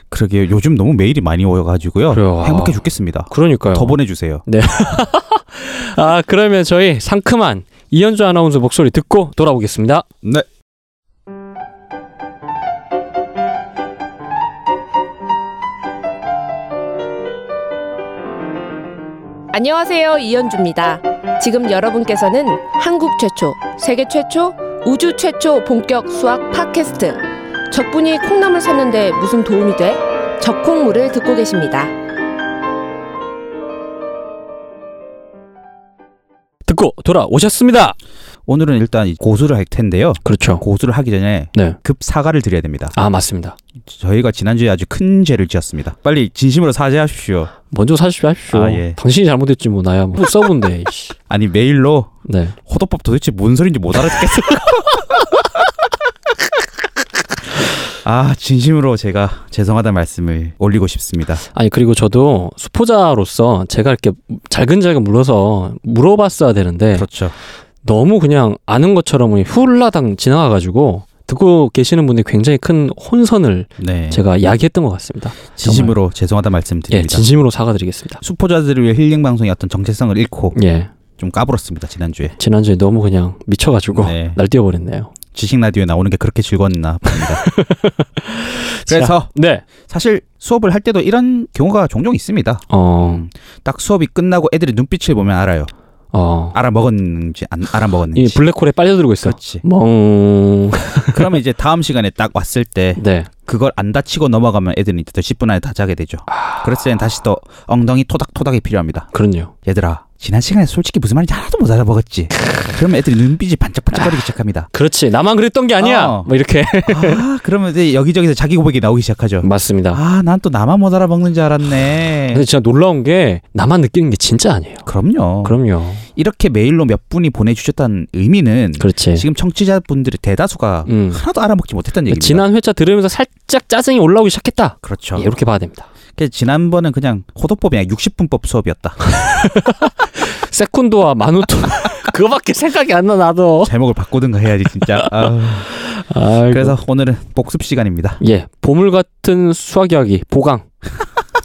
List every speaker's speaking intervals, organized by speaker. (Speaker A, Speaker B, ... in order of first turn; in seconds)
Speaker A: 0.1-4.4, 38.5-42.9, 43.9-47.5, 48.5-49.0, 51.3-55.5, 57.9-61.4, 66.9-67.3, 73.8-74.2, 75.6-77.3, 78.2-80.5, 81.2-82.3, 83.9-84.4, 85.3-87.4, 88.9-95.7, 96.5-98.4, 99.2-99.6, 101.1-109.1, 109.6-114.7, 115.8-116.3, 116.8-122.4, 124.8-125.6, 126.1-132.4, 134.8-135.3, 136.2-139.0, 143.6-145.7, 146.5-148.2
Speaker B: 2.1-2.8, 3.3-10.1, 36.7-38.0, 40.2-40.6, 42.9-43.5, 47.7-51.1, 52.2-52.5, 61.5-67.1, 67.8-75.9, 76.9-78.2, 80.5-80.9, 82.4-85.1, 87.1-89.6, 92.7-93.2, 96.1-96.6, 98.1-101.3, 103.0-103.3, 106.3-106.6, 109.1-109.5, 114.7-117.2, 119.4-120.0, 122.3-124.8, 125.4-126.0, 128.8-129.2, 130.9-131.2, 132.1-135.9, 139.1-143.7, 144.9-146.8, 148.2-150.6
Speaker C: 19.5-31.9